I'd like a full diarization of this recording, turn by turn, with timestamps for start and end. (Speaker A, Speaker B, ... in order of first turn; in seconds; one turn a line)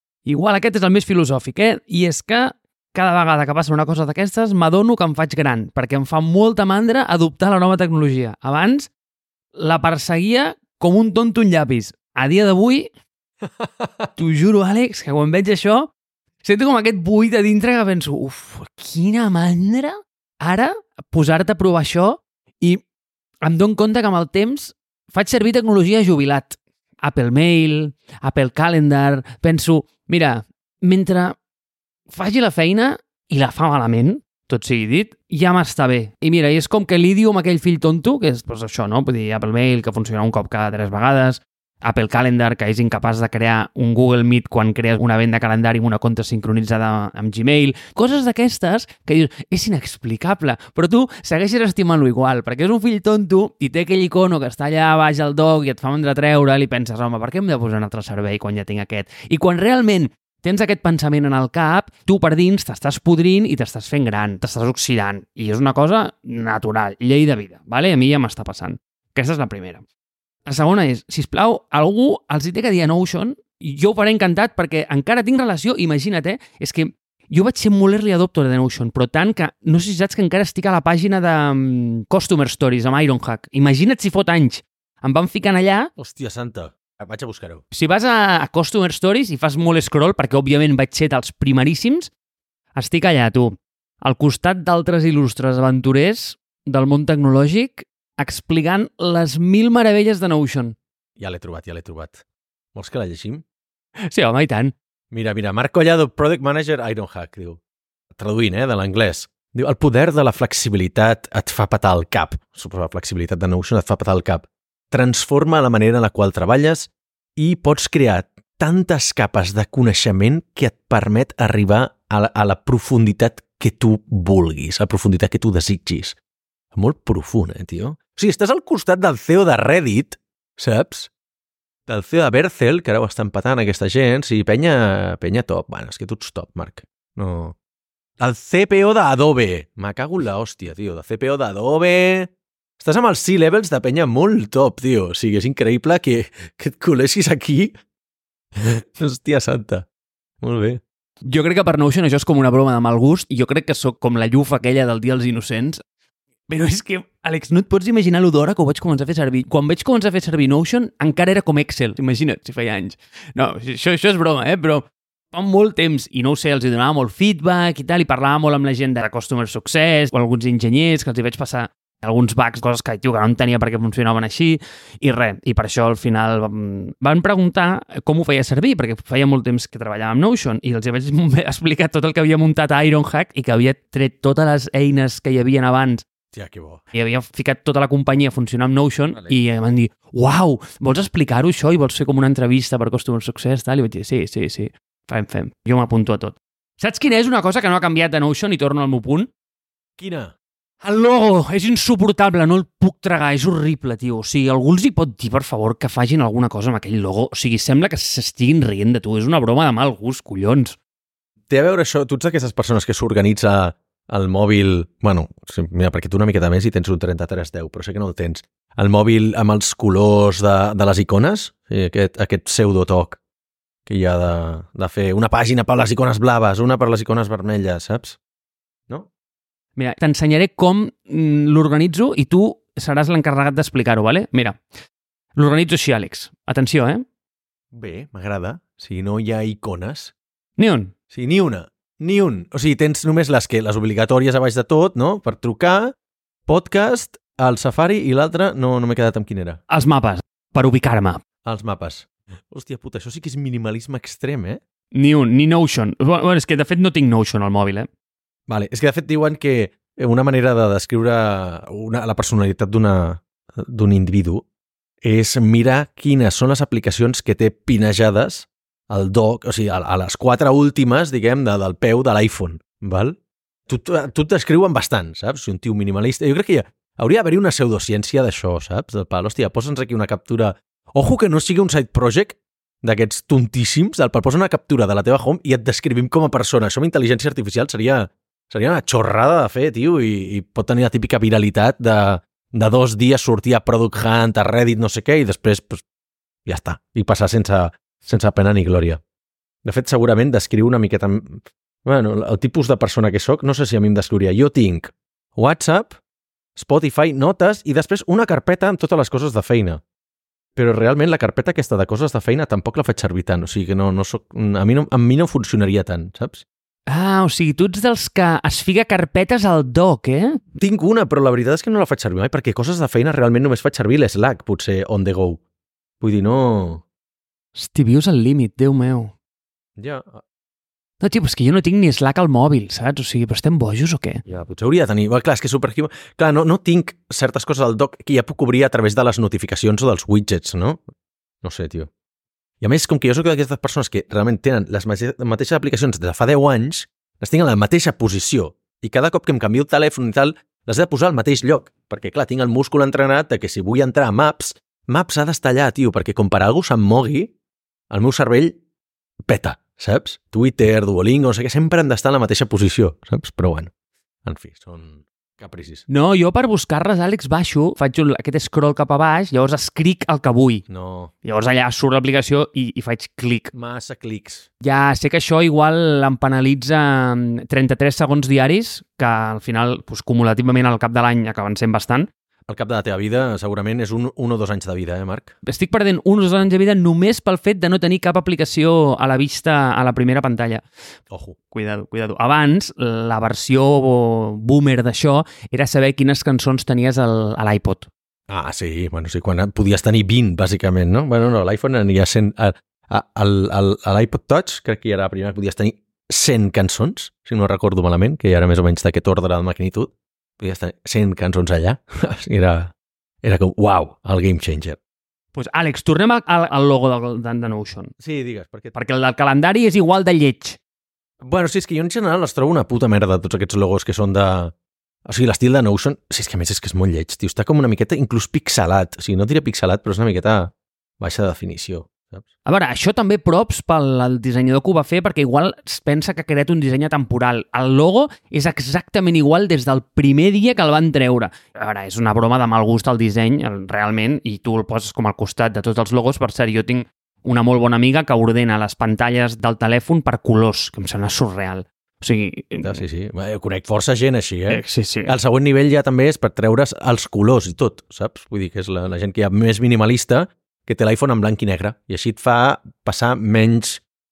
Speaker A: 0.3-8.9
Speaker A: 9.6-12.9
Speaker B: 13.6-14.1
Speaker A: 14.2-15.9
Speaker A: 16.4-22.8
Speaker A: 23.4-31.4
Speaker A: 32.1-69.8
Speaker A: 70.5-85.9
Speaker B: 86.0-87.6
Speaker A: 87.7-92.1
Speaker A: 92.8-100.8
Speaker B: 101.2-102.2
Speaker B: 102.8-103.4
Speaker A: 104.1-104.7
Speaker B: 105.1-107.6
Speaker B: 108.1-126.2
Speaker B: 126.7-131.1
Speaker B: 131.9-137.6
Speaker B: 138.2-147.7
Speaker B: 148.6-149.9
Speaker B: 150.4-150.8
Speaker A: 151.2-155.8
Speaker A: 156.5-186.1
Speaker B: 186.3-186.8
Speaker A: 186.9-199.3
Speaker B: 200.0-200.3
Speaker A: 200.8-210.8
Speaker B: 211.5-223.2
Speaker B: 223.9-228.2
Speaker A: 229.8-234.6
Speaker A: 235.4-237.0
Speaker B: 237.7-240.1
Speaker A: 240.6-240.9
Speaker B: 241.1-245.9
Speaker B: 246.5-249.6
Speaker A: 249.7-251.2
Speaker B: 251.4-254.6
Speaker A: 254.9-257.9
Speaker B: 258.5-264.4
Speaker B: 265.0-273.2
Speaker B: 273.7-295.8
Speaker B: 296.5-299.0
Speaker B: 299.6-306.0
Speaker B: 306.6-309.8
Speaker B: 310.6-316.4
Speaker A: 316.9-320.4
Speaker B: 320.6-325.4
Speaker B: 326.0-326.8
Speaker A: 327.6-329.1
Speaker B: 329.8-330.2
Speaker A: 331.0-334.2
Speaker B: 334.3-340.8
Speaker B: 341.4-341.9
Speaker B: 342.6-357.3
Speaker B: 357.9-358.6
Speaker B: 359.3-363.7
Speaker B: 364.2-365.9
Speaker A: 365.9-370.6
Speaker B: 370.7-371.1
Speaker A: 371.2-373.5
Speaker B: 373.5-374.5
Speaker A: 374.6-382.1
Speaker B: 382.5-385.3
Speaker A: 385.5-390.7
Speaker A: 391.5-397.9
Speaker B: 398.3-412.7
Speaker B: 413.2-414.8
Speaker A: 415.3-417.9
Speaker B: 418.0-418.8
Speaker A: 418.8-420.6
Speaker B: 421.2-424.5
Speaker B: 425.1-432.3
Speaker A: 432.5-452.8
Speaker B: 452.6-463.8
Speaker A: 454.5-455.1